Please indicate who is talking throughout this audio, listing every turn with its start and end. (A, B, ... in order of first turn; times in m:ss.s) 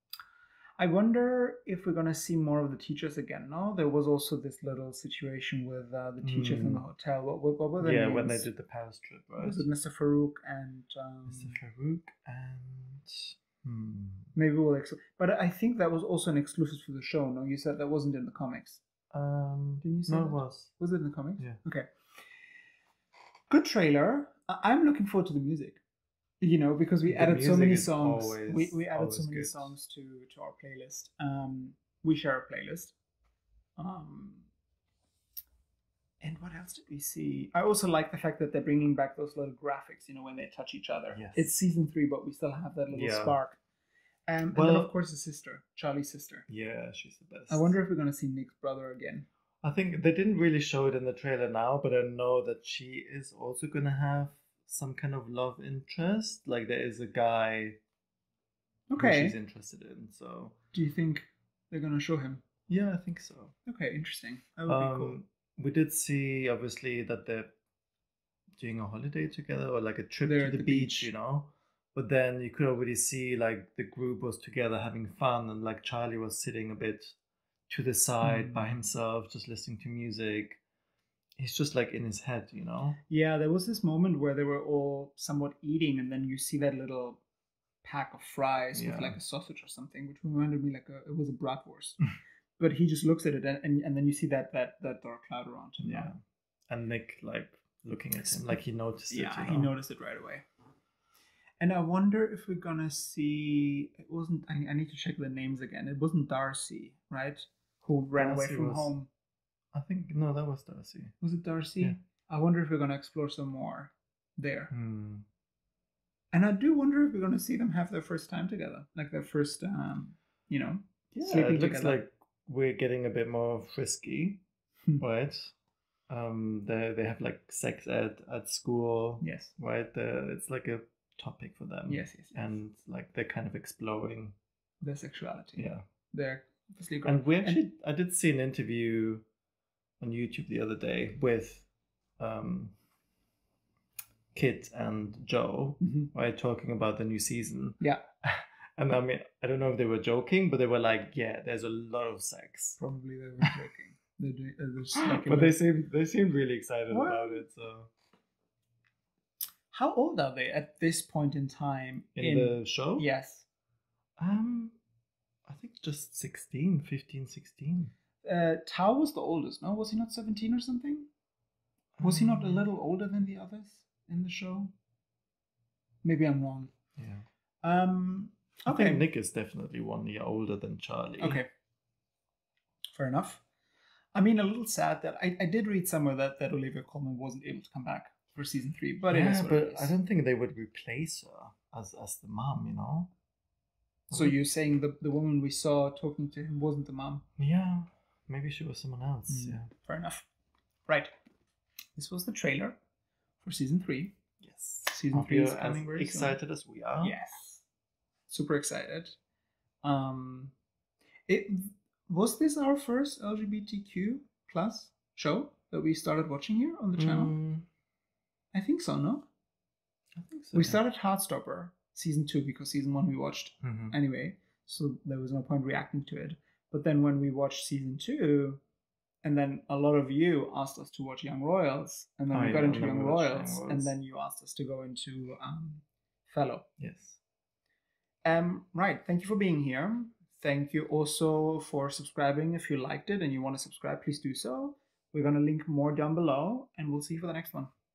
0:00.8-0:08.5 A
0:06.2-0:06.8 B
0:07.8-0:09.7 B
0:09.4-0:11.6 A
0:11.3-0:14.3 B
0:14.3-0:18.8 A
0:19.1-0:20.7 B
0:19.8-0:21.9 A
0:23.5-0:25.8 A
0:26.4-0:32.9 A
0:27.1-0:29.8 B
0:33.8-0:34.5 A
0:36.2-0:43.6 A
0:41.1-0:41.5 B
0:42.9-0:43.4 B
0:44.3-0:46.5 A
0:44.5-0:44.9 B
0:46.5-0:47.8 B
0:47.5-0:49.3 A
0:49.6-0:57.8 B
0:58.9-0:59.4 A
0:59.0-1:00.6 B
1:00.7-1:02.4 A
1:02.7-1:03.5 B
1:03.7-1:05.2 A
1:04.7-1:07.5 B
1:08.6-1:17.2 B
1:10.2-1:11.1 A
1:17.7-1:20.6 B
1:18.2-1:18.8 A
1:21.4-1:23.0 B
1:23.1-1:27.2 A
1:27.8-1:36.1 A
1:28.8-1:29.2 B
1:35.8-1:39.7 B
1:39.1-1:40.5 A
1:41.6-1:49.1 A
1:48.2-1:48.9 B
1:49.7-1:51.1 B
1:51.2-1:54.7 A
1:54.7-1:55.2 B
1:56.3-2:02.0 A
2:01.1-2:04.4 B
2:05.0-2:05.6 B
2:06.1-2:14.4 B
2:09.2-2:09.5 A
2:11.9-2:12.6 A
2:14.8-2:17.6 A
2:15.6-2:15.8 B
2:17.0-2:19.2 B
2:20.0-2:21.7 B
2:22.2-2:22.8 B
2:24.3-2:32.8 B
2:25.8-2:26.1 A
2:32.8-2:35.6 A
2:35.1-2:37.9 B
2:36.9-2:37.5 A
2:39.7-2:43.5 A
2:42.2-2:43.1 B
2:44.2-2:44.8 B
2:45.5-2:47.9 B
2:48.2-2:51.1 A
2:52.0-2:52.6 B
2:52.0-2:54.7 A
2:56.0-2:56.7 A
2:57.0-2:57.3 B
2:57.6-2:59.1 A
2:58.7-3:01.4 B
3:01.2-3:01.5 A
3:02.9-3:03.4 A
3:04.1-3:10.0 A
3:09.1-3:13.1 B
3:14.1-3:17.3 A
3:17.4-3:19.7 B
3:19.3-3:20.3 A
3:20.9-3:21.1 A
3:22.0-3:22.8 A
3:23.4-3:24.2 A
3:24.4-3:27.2 B
3:24.9-3:26.4 A
3:27.0-3:27.6 A
3:28.3-3:29.2 A
3:29.8-3:30.5 A
3:31.3-3:37.4 A
3:37.0-3:37.7 B
3:38.5-3:39.3 A
3:40.2-3:40.8 B
3:40.5-3:48.6 A
3:43.6-3:44.0 B
3:49.2-3:56.7 A
3:52.3-3:53.9 B
3:56.8-3:57.2 B
3:58.2-4:07.7 A